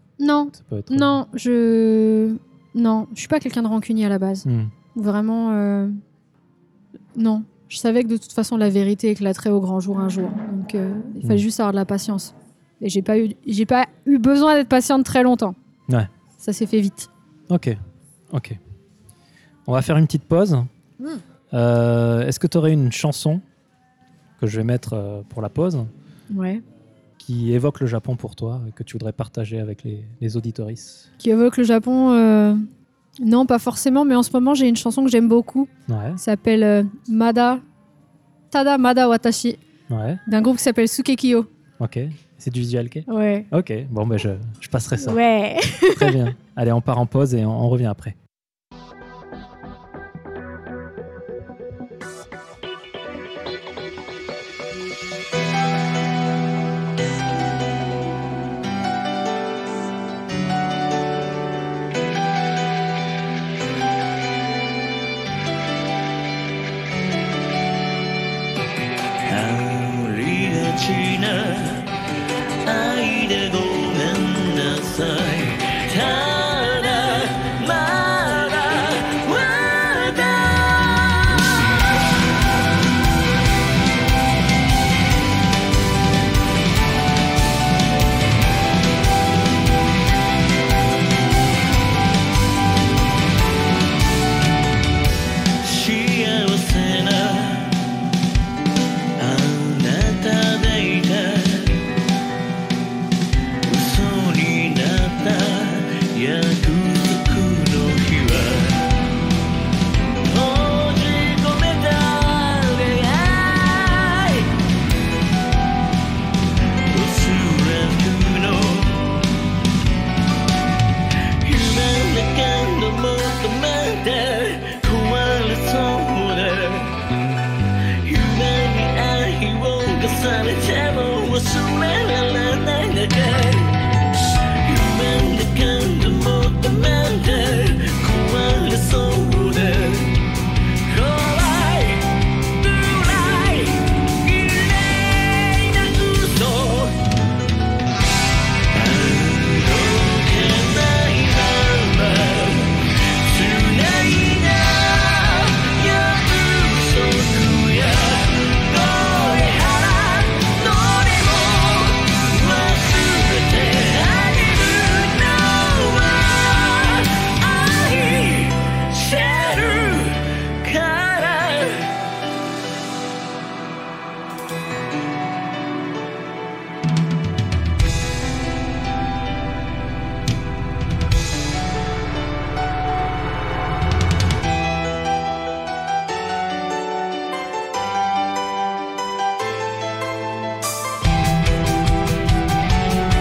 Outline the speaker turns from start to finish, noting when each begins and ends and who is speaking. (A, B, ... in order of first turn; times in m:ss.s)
0:00.2-0:06.0 A
0:00.5-0:01.2 B
0:04.5-0:04.7 B
0:07.2-0:15.6 A
0:16.4-0:17.1 A
0:17.5-0:17.8 B
0:18.3-0:18.6 B
0:19.7-0:20.7 B
0:21.5-0:23.4 B
0:24.4-0:25.9 B
0:26.3-0:26.6 A
0:27.2-0:31.1 B
0:31.2-0:32.6 A
0:33.2-0:37.6 A
0:35.9-0:36.2 B
0:38.5-0:39.6 A
0:39.9-0:40.2 B
0:40.3-0:41.5 A
0:41.8-0:45.2 B
0:43.1-0:43.5 A
0:45.0-0:46.2 A
0:45.9-0:48.2 B
1:09.3-1:11.9 C
1:12.6-1:21.9 C
1:35.6-1:37.9 C
1:39.2-1:41.9 C
1:43.6-1:49.0 C
1:50.2-1:54.5 C
1:56.9-1:59.2 C
2:01.4-2:06.9 C
2:08.0-2:13.8 C
2:14.6-2:20.3 C
2:20.8-2:27.0 C
2:28.7-2:51.9 C